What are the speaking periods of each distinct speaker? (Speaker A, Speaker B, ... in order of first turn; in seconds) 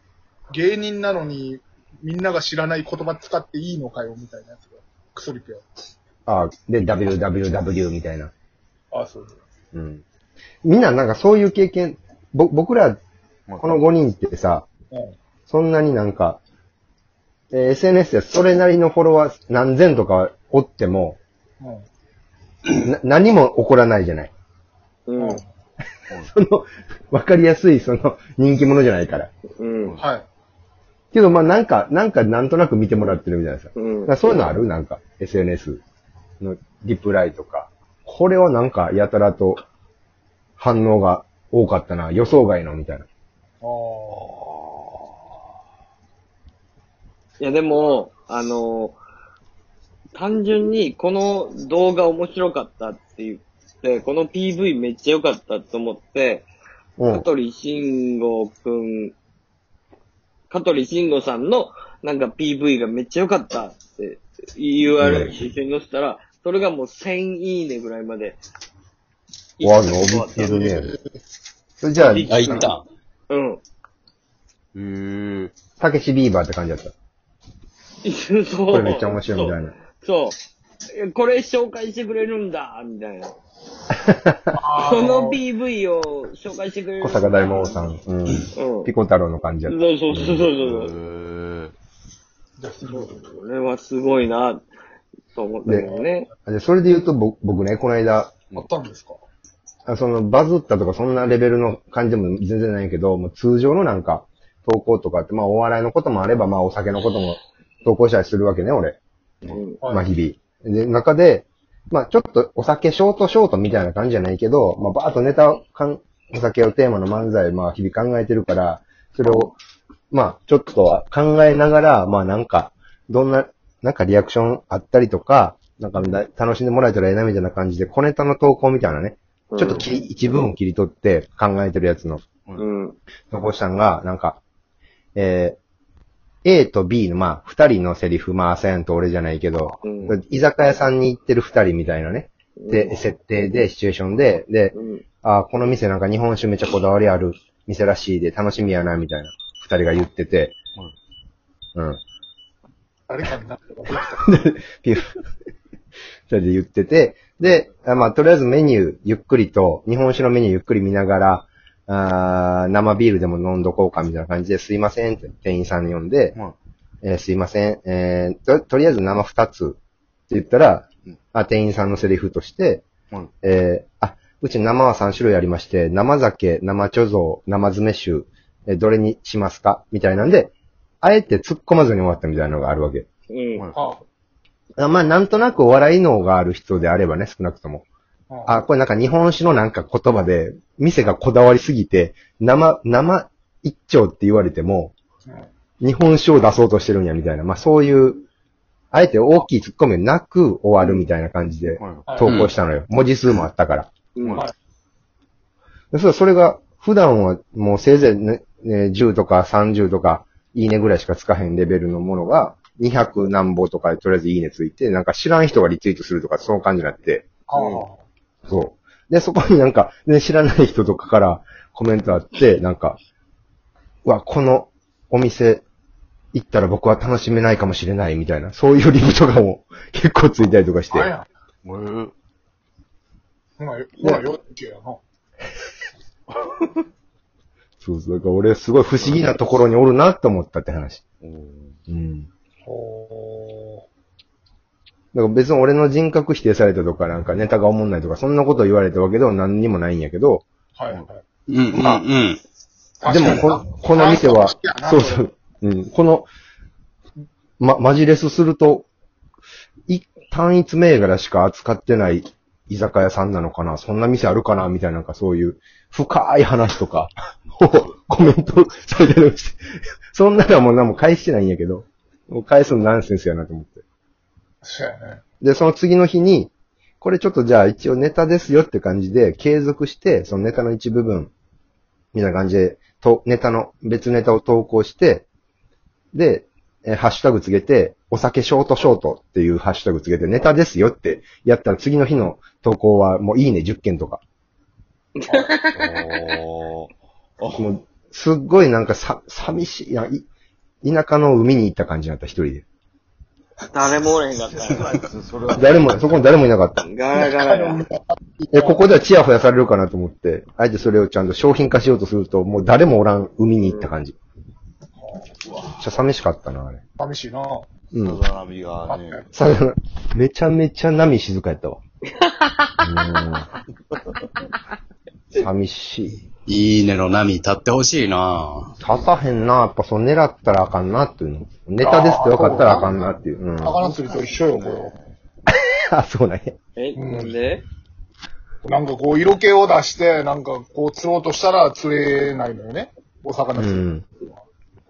Speaker A: 0.5-5.7, 8.9-9.4, 25.2-25.5, 30.0-30.2, 43.6-44.3, 70.5-71.0, 84.5-85.4, 92.6-93.2, 98.5-99.2, 153.1-154.2, 183.7-184.0, 188.3-188.6, 202.1-202.4, 217.5-218.0, 230.9-231.3, 233.6-235.0, 242.7-243.8, 250.8-252.0, 253.0-255.2, 274.6-275.2, 307.2-308.9, 315.0-315.3, 317.0-317.7, 318.9-319.2, 331.8-332.9, 333.6-334.9, 337.0-337.4, 338.6-344.4
Speaker B: 6.3-8.3, 9.7-10.0, 10.6-13.0, 13.6-14.7, 15.5-16.4, 17.5-21.2, 22.7-24.3, 26.3-29.3, 31.1-35.8, 36.4-39.6, 40.6-43.1, 57.0-57.3, 65.0-65.3, 69.6-70.9, 71.8-72.7, 75.8-76.9, 78.7-79.8, 84.0-84.6, 87.0-90.4, 95.7-95.9, 96.5-98.4, 99.9-109.0, 109.9-119.5, 120.1-132.2, 133.3-134.4, 135.2-135.6, 136.4-150.6, 154.1-155.1, 156.3-166.4, 167.0-169.8, 170.3-172.9, 173.4-183.1, 184.8-187.9, 188.5-194.9, 195.8-198.2, 198.9-203.9, 205.9-217.3, 218.5-223.0, 224.1-225.6, 226.3-231.1, 237.8-241.0, 241.9-242.3, 245.1-250.5, 253.1-256.3, 257.6-258.9, 259.9-269.6, 270.1-273.8, 275.4-281.3, 282.1-285.3, 286.1-294.2, 297.6-300.3, 300.8-302.6, 305.6-306.9, 308.5-314.1, 315.8-316.8, 317.9-318.2, 319.3-321.8, 322.8-323.5, 325.4-326.2, 328.8-333.8, 335.5-336.6, 343.6-344.1
Speaker C: 13.5-13.8, 90.5-91.7, 201.8-202.1, 204.2-204.5, 231.6-232.1, 239.0-239.3, 241.2-241.8, 295.7-297.7, 304.4-306.3, 318.0-319.3, 333.9-335.1
Speaker D: 25.1-25.4, 29.6-30.0, 33.8-34.1, 47.4-49.0, 50.1-56.5, 57.1-59.1, 60.5-68.4, 69.6-70.6, 72.0-72.7, 73.3-73.6, 78.0-80.4, 80.9-83.3, 84.8-87.5, 88.5-88.9, 89.7-90.9, 92.8-94.7, 95.3-96.3, 109.5-109.8, 129.5-129.9, 132.6-133.0, 139.8-140.2, 142.6-143.0, 144.7-145.0, 183.3-183.7, 204.2-204.4, 217.6-217.8, 295.2-296.0, 303.7-304.8, 306.9-307.8, 313.6-313.9, 322.2-322.6, 336.8-337.6
Speaker E: 72.3-72.8, 74.8-75.5, 202.2-202.5, 251.5-252.4, 326.5-328.7